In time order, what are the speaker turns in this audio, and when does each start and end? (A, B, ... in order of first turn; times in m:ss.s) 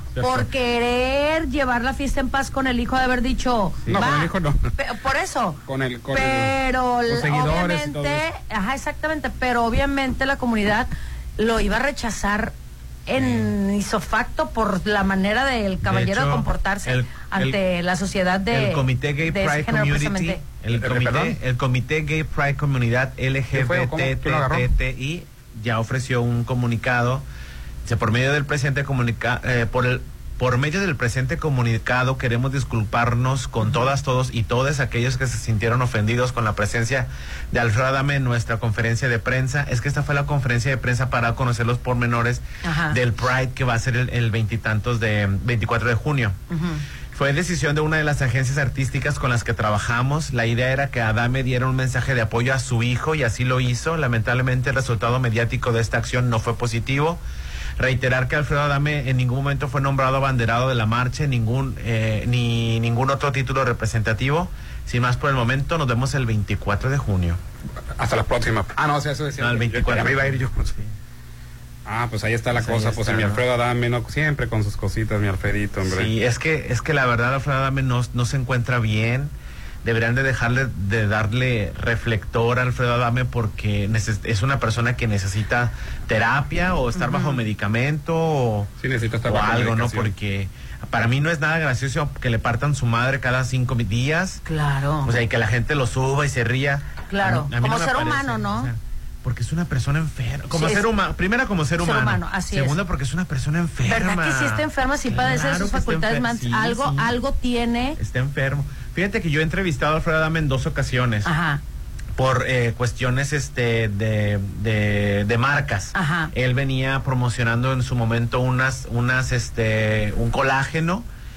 0:00.2-0:00.5 A
0:00.2-0:12.6 B
0:03.8-0:04.1 C
0:03.9-0:04.7 A
0:05.6-0:08.2 A
0:13.1-0:20.4 B
0:15.8-0:17.6 C
0:18.5-0:27.2 C
0:20.7-0:21.4 A
0:23.5-0:24.7 A
0:27.8-0:46.4 C
0:42.6-0:43.0 B
0:46.5-0:46.8 B
0:47.1-0:57.2 C
0:57.8-1:07.4 C
1:08.0-1:10.8 A
1:09.4-1:10.9 C
1:11.9-1:16.1 A
1:12.6-1:13.4 C
1:15.8-1:19.3 C
1:19.8-1:28.7 C
1:27.0-1:27.4 B
1:28.8-1:30.1 A
1:29.2-1:34.4 C
1:34.4-1:35.1 B
1:35.0-1:47.2 C
1:37.1-1:38.7 B
1:40.5-1:40.9 B
1:41.8-1:42.8 B
1:43.8-1:48.0 B
1:48.0-1:51.3 C
1:51.2-1:51.6 B
1:52.2-2:01.1 C
1:55.9-1:56.3 B